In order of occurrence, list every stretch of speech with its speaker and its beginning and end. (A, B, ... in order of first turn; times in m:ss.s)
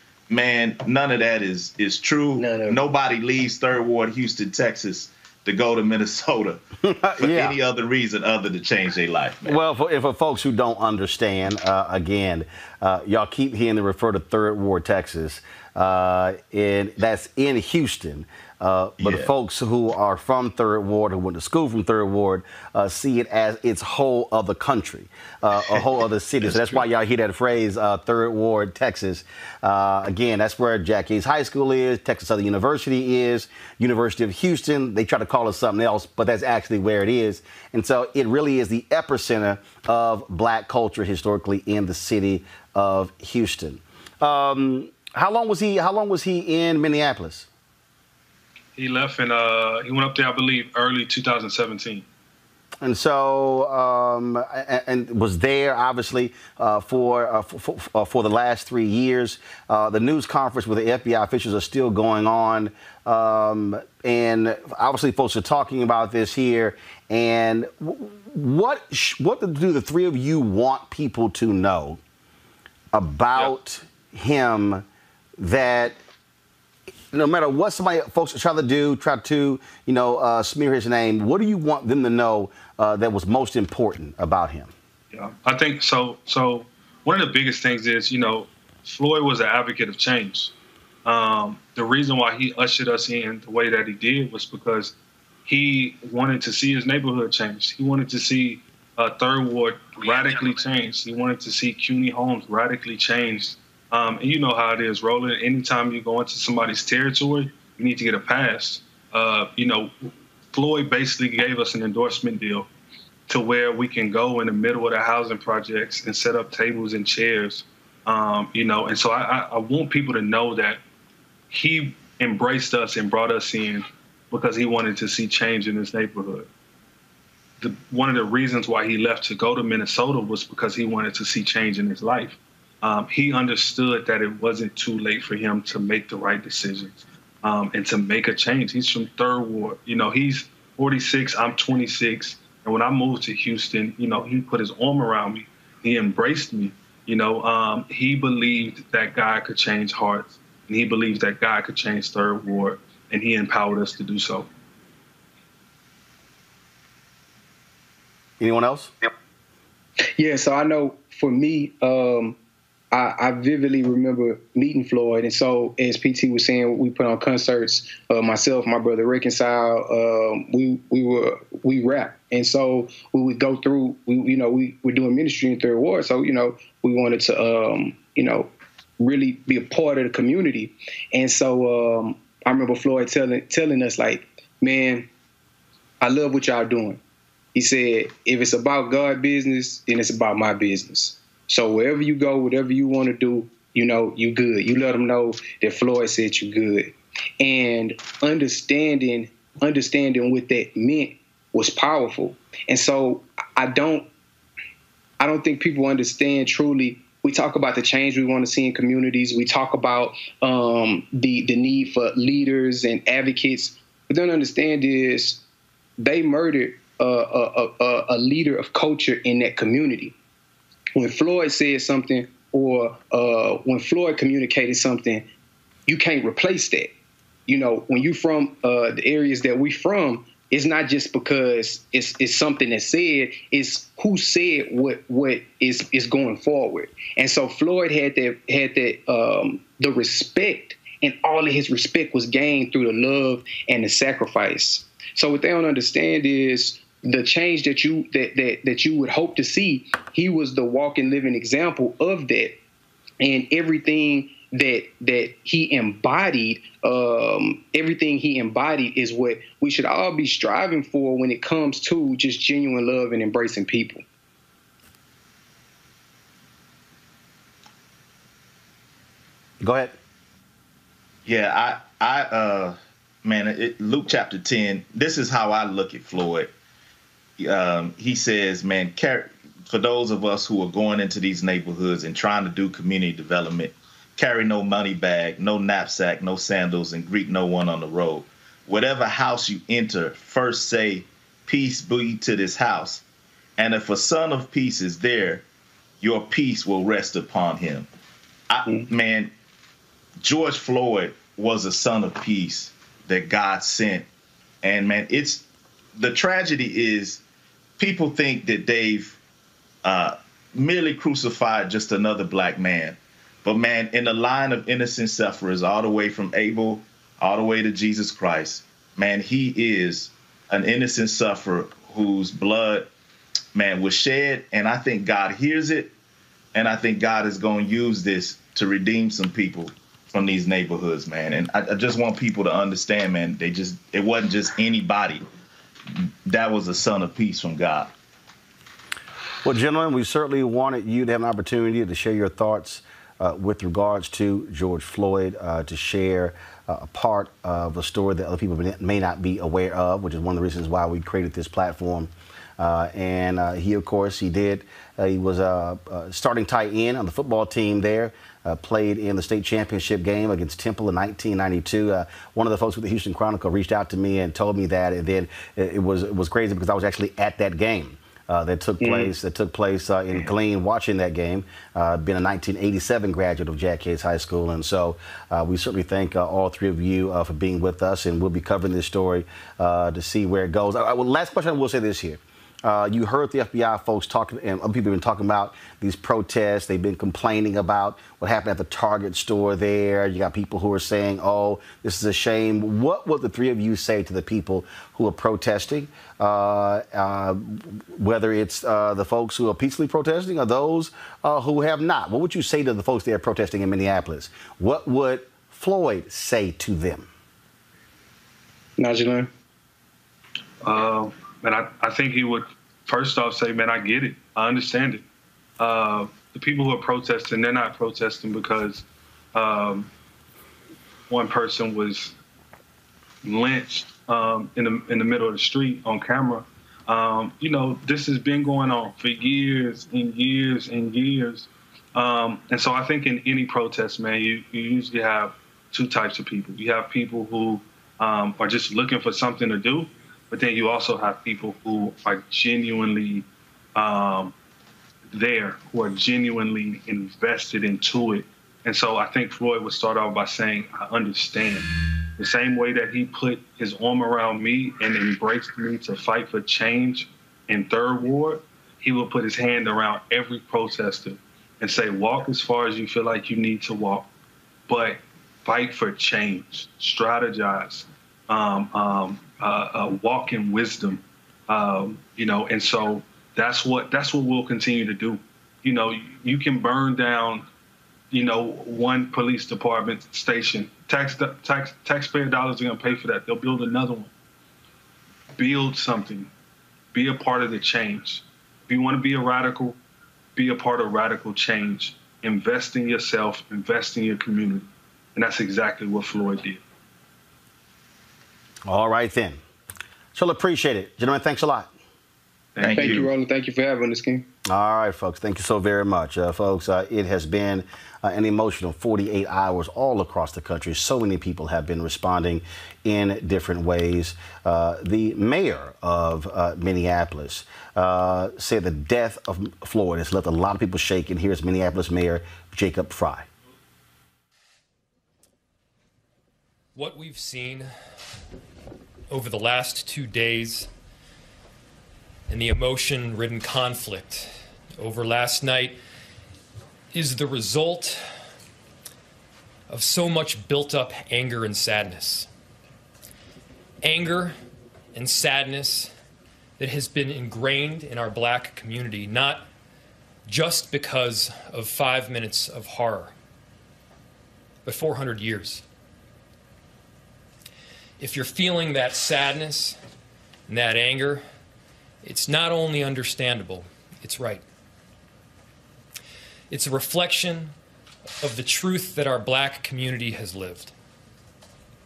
0:00.3-0:06.6 A
0:02.4-0:02.8 B
0:06.9-0:07.6 C
0:07.2-0:09.6 A
0:09.4-0:47.5 C
0:19.0-0:19.3 A
0:26.4-0:26.8 A
0:48.8-0:52.0 D
0:52.8-1:12.0 C
1:12.9-1:14.8 C
1:15.4-1:16.0 C
1:17.1-1:24.7 C
1:25.1-1:30.5 D
1:31.0-1:34.9 D
1:35.5-1:52.7 D
1:53.3-2:00.8 D
2:01.5-2:06.5 D
2:07.6-2:34.5 D
2:38.4-2:38.9 C
2:40.2-2:42.4 B
2:42.9-2:58.5 B
2:59.0-3:05.1 B
3:06.0-3:07.0 B
3:07.6-3:24.1 B
3:25.2-3:35.4 B
3:36.0-3:40.2 B
3:41.0-3:45.3 B
3:45.9-3:46.9 B
3:47.5-4:12.6 B
4:13.2-4:24.0 B
4:29.6-4:30.0 C
4:31.3-4:36.5 A
4:37.4-4:53.0 A
4:53.6-4:55.4 A
4:56.0-4:57.9 A
4:58.5-4:59.3 A
5:00.2-5:04.1 A
5:04.6-5:05.4 A
5:06.0-5:07.2 A
5:07.8-5:09.2 A
5:09.8-5:22.9 A
5:23.6-5:25.9 A
5:26.5-5:35.2 A
5:36.0-5:37.9 A
5:39.4-6:47.1 C
6:08.8-6:09.1 B
6:48.8-6:49.3 B
6:50.6-6:55.0 D
6:55.6-6:59.9 D
7:01.1-7:02.1 D
7:03.2-7:23.2 D
7:23.8-7:24.3 D
7:25.1-7:44.1 D
7:44.7-7:57.5 D
7:58.1-8:04.1 D
8:05.4-8:06.3 D
8:06.9-8:09.8 D
8:10.4-8:16.6 D
8:18.7-8:19.4 C
8:20.2-8:21.7 C
8:22.6-8:23.1 D
8:22.6-8:23.1 A
8:22.7-8:24.3 B
8:24.4-8:43.3 C
8:46.8-8:47.7 E
8:49.1-8:50.7 E
8:52.3-8:55.8 E
8:56.9-8:58.0 E
8:59.7-9:02.3 E
9:03.8-9:04.4 E
9:04.9-9:05.9 E
9:06.6-9:09.5 E
9:10.3-9:13.2 E
9:14.7-9:15.6 E
9:18.0-9:19.8 E
9:20.5-9:21.3 E
9:22.0-9:24.4 E
9:26.5-9:27.5 E
9:28.2-9:30.7 E